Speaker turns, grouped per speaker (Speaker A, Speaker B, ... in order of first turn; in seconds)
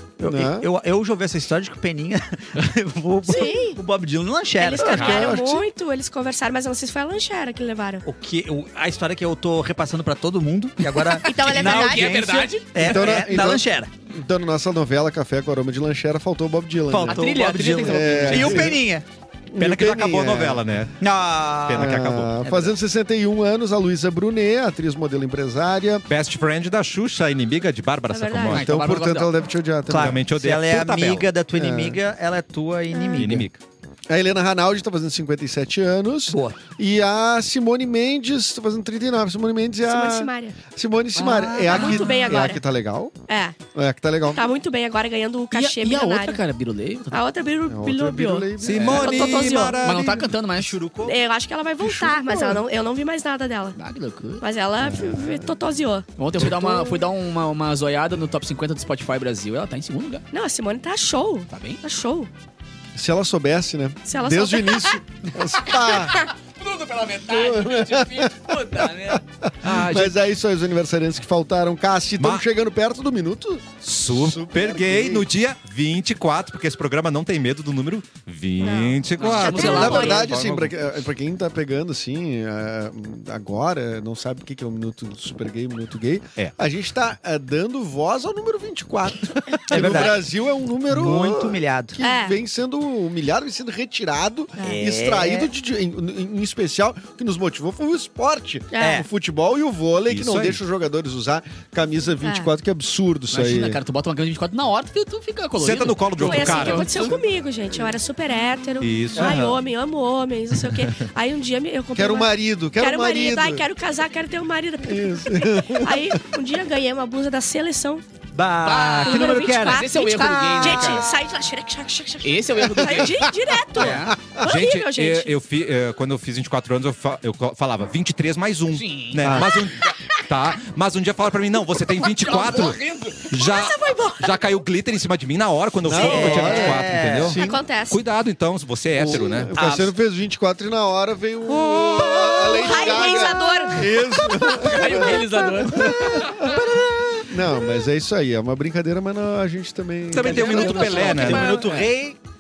Speaker A: 0.2-5.3, 8.0-13.9, 16.9-19.1, 21.0-22.7, 29.9-33.5, 36.3-36.6, 50.5-51.2, 89.7-90.2, 90.9-92.0, 94.6-95.5, 98.8-99.0, 109.2-109.5, 118.3-121.0, 123.8-124.2, 135.9-137.4, 139.6-139.9, 150.2-152.2
Speaker B: 0.2-0.7, 4.8-5.7, 12.8-18.9, 19.5-20.6, 21.7-26.1, 28.5-30.2, 31.6-32.0, 34.1-43.1, 43.8-44.5, 47.7-49.6, 51.8-52.6, 54.8-55.5, 63.0-66.3, 67.3-75.3, 79.5-103.8, 111.9-113.6, 114.8-116.2, 122.8-123.1, 124.1-124.4, 129.2-129.5, 135.8-137.6, 139.0-151.4
Speaker C: 3.2-3.8, 4.6-8.1, 11.1-12.3, 28.1-28.6, 32.9-33.3, 39.9-40.6, 41.7-42.6, 43.3-43.6, 44.3-46.4, 47.1-49.9, 51.0-53.8, 54.4-57.0, 60.3-62.3, 64.1-65.0, 78.6-80.3, 92.0-92.4, 98.7-99.0, 102.2-102.5, 106.2-118.0, 119.0-125.3, 133.3-134.3, 136.1-136.7, 137.3-138.0, 141.7-145.1, 150.6-151.1
Speaker D: 10.9-13.1, 17.0-18.7, 28.5-29.3, 41.2-42.5, 45.5-47.2, 49.8-50.8, 53.8-54.4, 56.2-60.2, 61.5-61.8, 65.8-69.2, 79.2-80.3, 103.3-107.2, 118.6-121.1, 122.2-123.2, 128.7-129.6, 132.0-133.3, 144.6-146.6, 150.3-151.9
Speaker E: 19.6-21.0, 21.7-22.4, 26.1-28.6, 29.9-31.3, 33.1-33.6, 48.6-50.4, 69.6-70.2, 72.2-72.4, 73.8-80.8, 100.1-100.6, 105.6-106.9, 108.8-109.5, 124.4-139.5, 150.1-151.6